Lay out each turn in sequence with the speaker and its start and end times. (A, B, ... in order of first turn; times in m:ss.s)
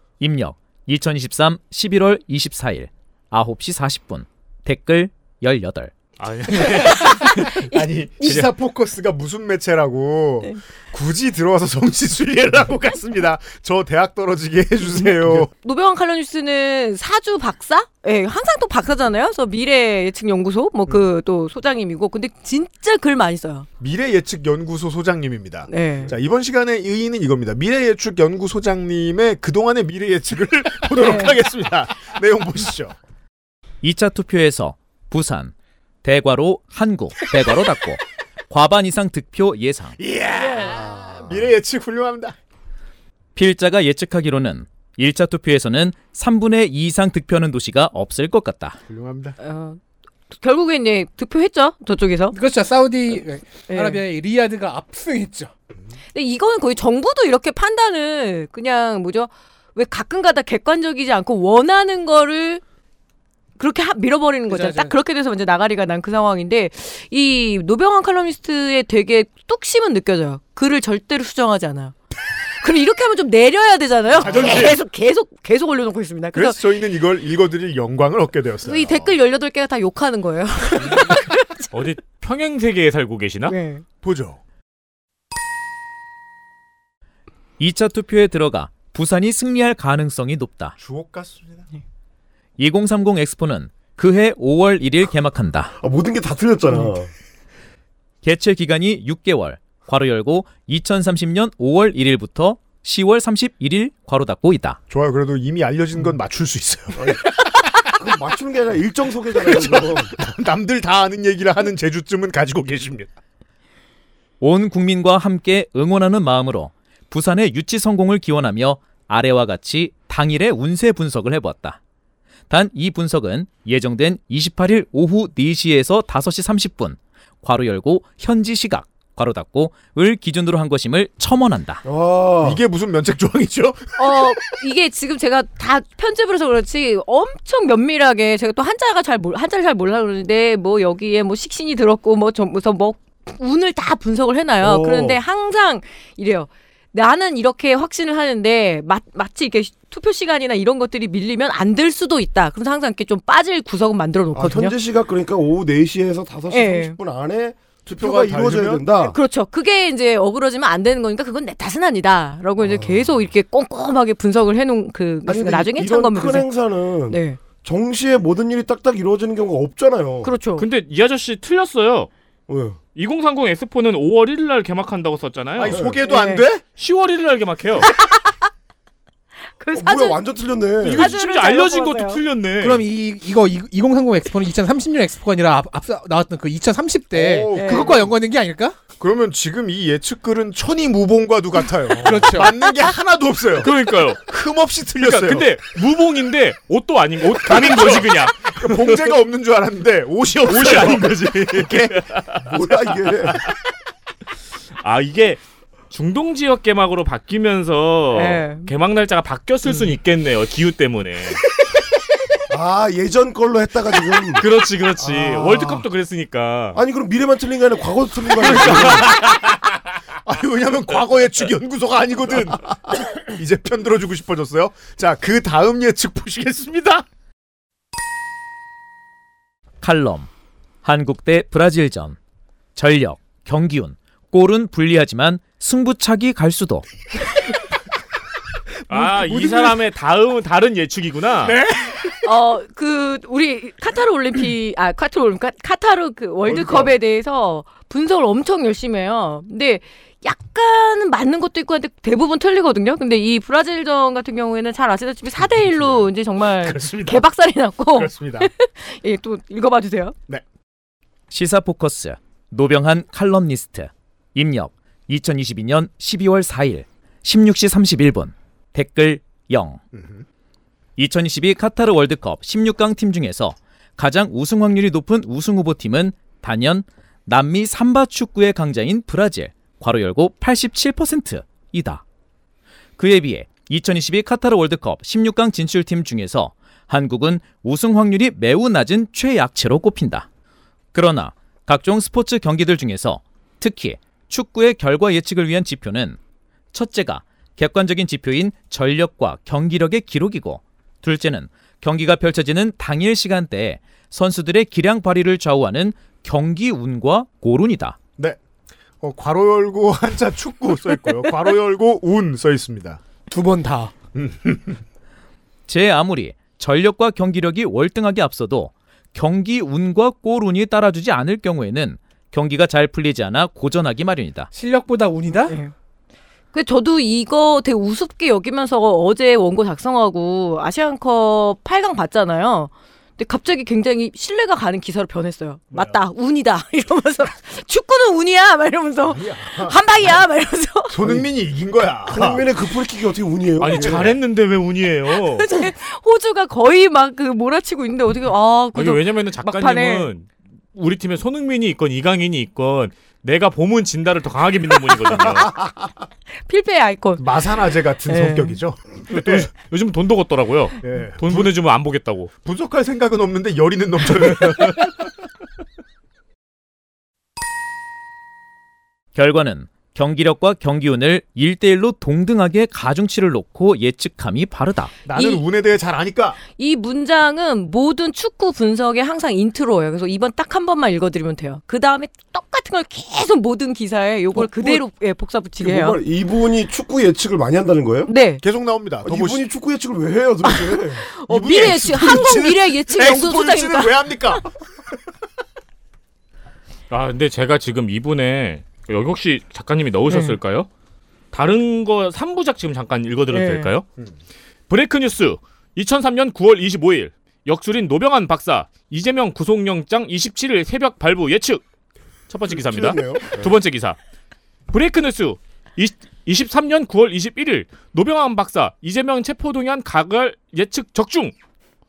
0:00.2-0:05.9 A
0:06.2-0:07.6 B
0:07.7-0:15.5 C
0:15.6-0:23.7 D
0:23.8-0:33.0 C
0:25.7-0:26.1 D
0:30.9-0:31.4 D
0:33.8-0:35.5 A
0:36.0-0:40.0 A
0:40.0-0:42.4 C
0:40.4-0:40.8 D
0:40.8-0:41.4 E
0:43.4-0:48.8 A
0:48.9-0:49.4 C
0:49.4-0:49.8 D
0:50.3-0:52.4 D
0:52.3-0:55.5 F
0:53.7-0:54.0 D
0:56.1-1:02.6 D
1:03.6-1:11.9 D
1:04.5-1:04.9 F
1:12.6-1:16.6 D
1:14.2-1:14.8 C
1:16.3-1:19.2 C
1:18.6-1:21.7 D
1:21.7-1:23.6 B
1:23.5-1:23.8 D
1:24.0-1:24.4 C
1:27.6-1:30.8 A
1:30.8-1:31.7 C
1:32.6-1:35.7 A
1:35.8-1:37.1 E
1:38.2-1:44.8 A
1:44.9-1:47.2 C
1:47.0-1:47.2 E
1:47.9-1:50.1 E
1:49.4-1:53.1 C
1:54.4-2:01.8 A
2:02.5-2:11.8 A
2:11.8-2:12.6 E
2:12.4-2:14.2 C
2:14.0-2:34.8 D
2:24.6-2:25.2 E
2:34.3-2:39.2 E
2:36.5-2:37.0 D
2:37.9-2:38.9 C
2:39.0-2:46.5 D
2:42.6-2:43.1 E
2:45.2-2:50.3 E
2:47.1-2:47.4 D
2:50.2-2:50.6 D
2:50.6-2:52.1 B
2:52.5-2:52.8 E
2:53.0-2:55.8 B
2:55.6-2:56.6 C
2:55.7-2:56.0 E
2:56.0-2:56.5 D
2:56.8-2:57.9 B
2:59.6-3:00.2 D
2:59.7-3:01.1 E
3:00.8-3:02.8 B
3:00.9-3:02.2 D
3:02.6-3:08.8 F
3:07.1-3:08.2 C
3:07.5-3:08.0 D
3:09.0-3:13.7 C
3:12.0-3:12.5 F
3:13.6-3:14.2 B
3:14.2-3:15.6 C
3:15.0-3:19.2 B
3:17.4-3:22.0 C
3:20.4-3:22.3 B
3:22.4-3:23.4 E
3:24.8-3:31.4 B
3:28.1-3:28.7 D
3:32.5-3:34.5 E
3:34.4-3:36.8 B
3:35.0-3:35.8 E
3:36.7-3:39.2 E
3:38.4-3:39.4 B
3:40.3-3:47.0 C
3:49.8-3:50.3 A
3:50.8-3:52.2 A
3:52.8-3:56.9 A
3:58.9-4:01.6 B
3:59.0-3:59.7 C
4:01.5-4:02.2 C
4:02.2-4:20.2 D
4:06.5-4:06.9 C
4:15.7-4:16.0 C
4:16.6-4:17.3 C
4:17.9-4:18.5 C
4:21.3-4:29.8 A
4:29.9-4:30.2 C
4:31.0-4:42.0 A
4:43.0-4:50.3 A
4:50.9-4:56.2 A
4:56.7-5:08.0 A
5:09.0-5:13.0 C
5:13.3-5:13.9 F
5:14.2-5:14.8 C
5:15.7-5:24.5 A
5:24.5-5:25.6 F
5:25.5-5:25.7 D
5:26.5-5:41.0 D
5:35.7-5:36.0 C
5:39.1-5:39.8 C
5:40.9-5:42.5 C
5:42.1-5:44.2 E
5:43.6-5:45.5 B
5:43.8-5:44.1 C
5:45.3-5:50.1 D
5:48.7-5:55.5 B
5:55.3-5:55.7 C
5:56.5-5:57.2 D
5:57.2-5:59.5 C
5:58.1-5:58.6 D
5:59.1-6:02.3 B
6:00.8-6:01.5 C
6:02.4-6:04.9 C
6:09.2-6:14.9 A
6:15.1-6:16.4 C
6:15.1-6:15.4 D
6:16.4-6:26.0 D
6:24.4-6:24.8 E
6:25.6-6:28.1 E
6:28.1-6:28.4 D
6:28.4-6:29.4 C
6:29.0-6:31.1 E
6:30.5-6:34.4 D
6:31.3-6:34.5 C
6:36.9-6:40.7 B
6:40.1-6:40.4 D
6:41.3-6:43.8 B
6:43.3-6:43.7 D
6:44.7-6:51.6 B
6:52.3-6:54.0 B
6:52.5-6:53.5 E
6:54.7-7:01.3 B